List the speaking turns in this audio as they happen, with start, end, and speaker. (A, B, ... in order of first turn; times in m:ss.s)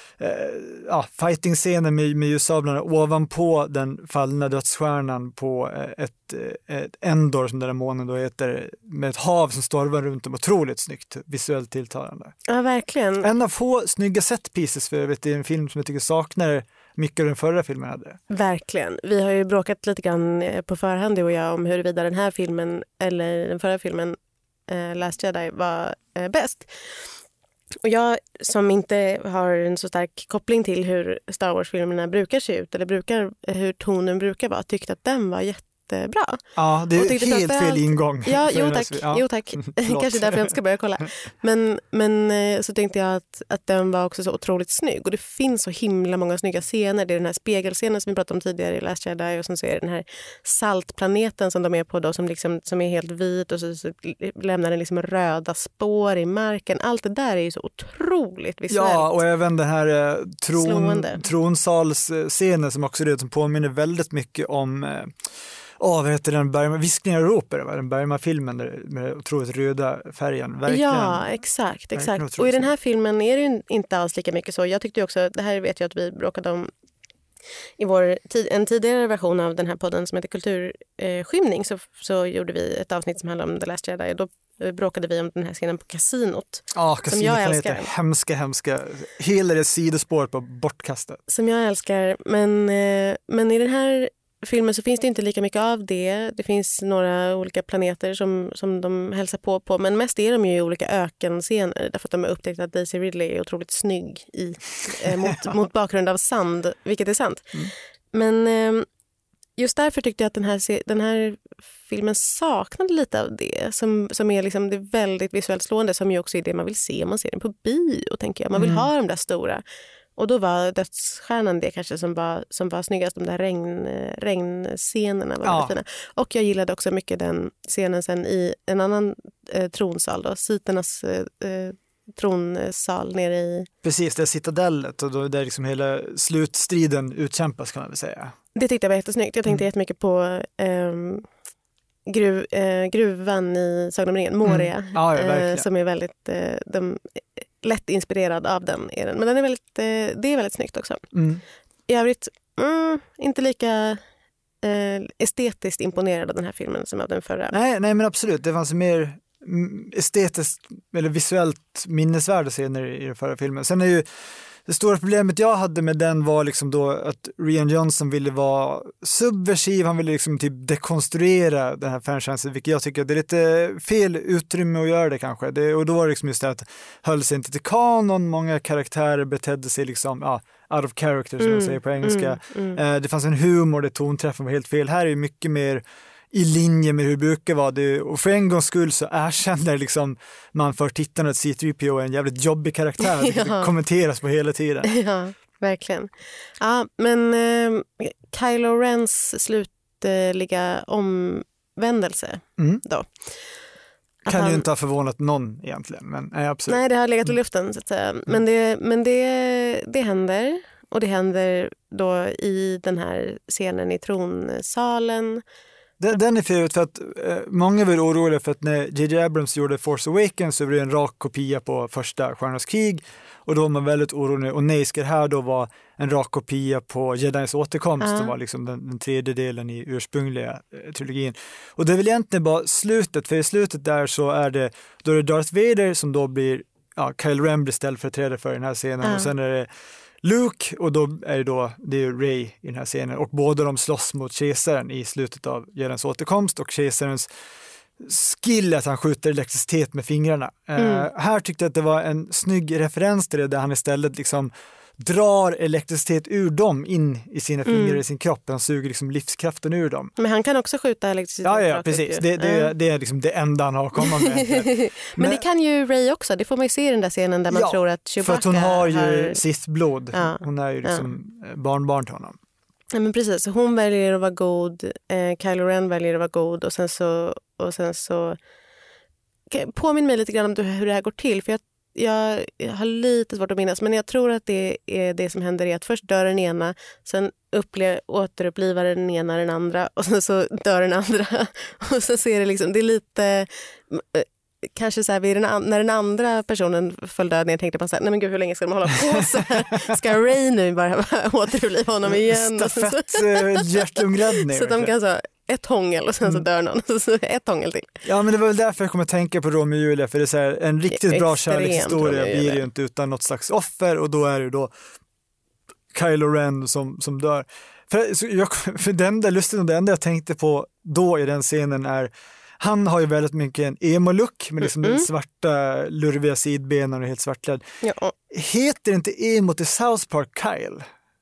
0:00.2-0:12.3 A
0:12.5-0:13.3 B
0:13.2-0:18.2 A
0:18.3-0:24.2 B
0:24.7-0:27.1 B
0:27.8-0:59.1 B
0:36.6-0:40.5 A
0:58.7-1:05.2 A
1:00.6-1:01.2 B
1:05.8-1:11.2 A
1:10.7-1:16.7 B
1:12.0-1:12.7 A
1:17.8-1:27.9 B
1:26.8-1:31.2 A
1:31.3-1:48.9 B
1:49.6-1:59.6 B
1:58.6-1:58.9 A
2:00.2-2:13.7 B
2:05.4-2:05.8 A
2:13.8-2:18.4 A
2:18.6-2:21.3 B
2:22.1-2:31.0 B
2:24.4-2:25.7 A
2:31.1-2:31.4 A
2:31.9-2:34.0 B
2:34.6-2:37.6 B
2:37.5-2:44.1 A
2:44.7-3:14.9 A
3:01.4-3:02.8 B
3:13.0-3:13.7 B
3:14.8-3:23.5 B
3:24.2-3:24.6 B
3:24.3-3:27.3 A
3:26.7-3:35.4 B
3:36.0-3:59.7 A
3:48.0-3:48.3 B
3:59.0-3:59.3 B
4:00.2-4:07.3 A
4:08.0-4:20.1 A
4:10.8-4:11.1 B
4:17.7-4:18.0 B
4:20.2-4:22.7 B
4:21.4-4:25.4 A
4:24.0-4:29.4 B
4:27.5-4:32.4 A
4:30.1-4:31.0 B
4:32.9-4:38.4 B
4:39.5-5:08.0 B
5:02.1-5:04.9 A
5:08.0-5:14.7 A
5:10.9-5:12.6 B
5:15.9-5:27.6 A
5:24.6-5:25.1 B
5:27.8-5:28.1 B
5:28.3-5:30.9 A